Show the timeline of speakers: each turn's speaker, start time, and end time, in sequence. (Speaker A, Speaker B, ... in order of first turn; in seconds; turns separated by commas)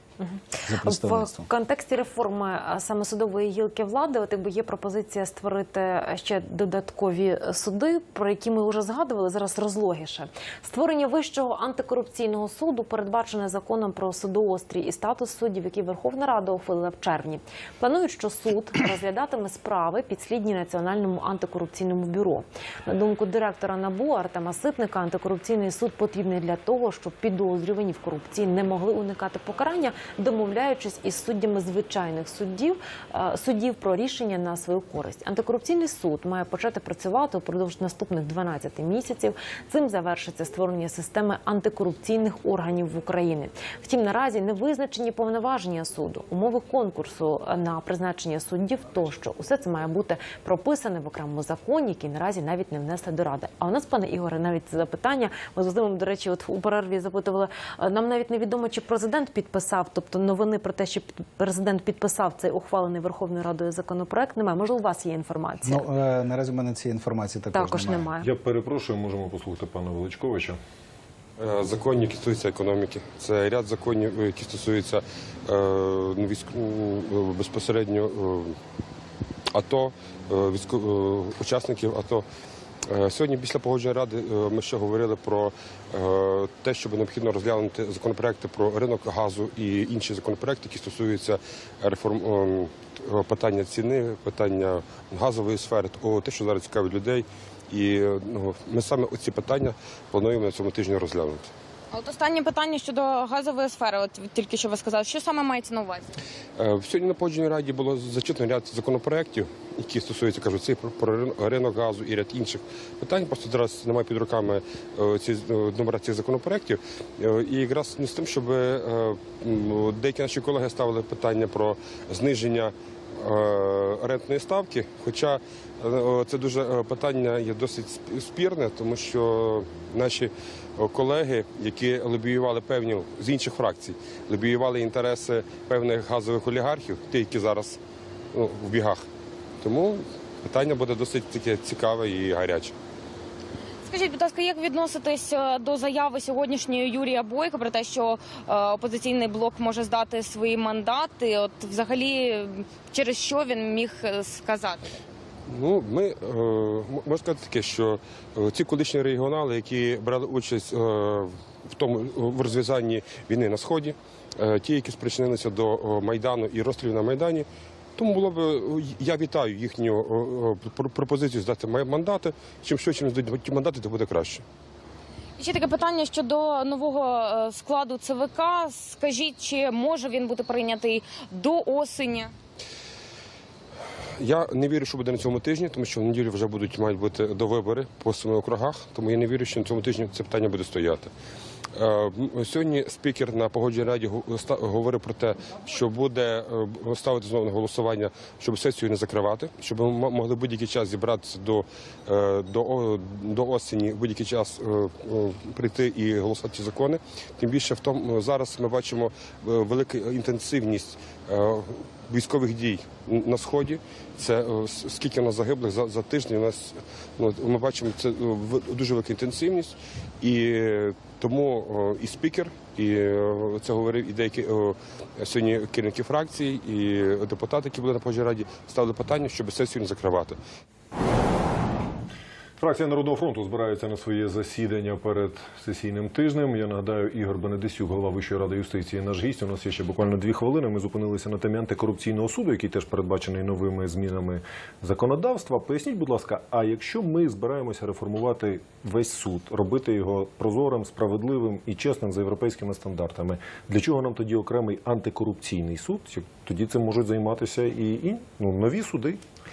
Speaker A: 0.2-65.8, Speaker B: 0.6-1.5, Speaker B: 65.6-68.1, Speaker A: 67.5-68.2, Speaker C: 68.2-70.6, Speaker D: 71.4-78.6, Speaker D: 79.5-82.2, Speaker D: 82.9-101.5, Speaker E: 101.9-106.1, Speaker D: 106.6-137.8, Speaker D: 138.3-139.0, Speaker D: 139.6-142.7, Speaker E: 143.8-154.8, Speaker D: 155.5-174.4, Speaker E: 175.4-182.3, Speaker D: 184.2-191.1, Speaker D: 191.7-230.4, Speaker C: 232.6-259.2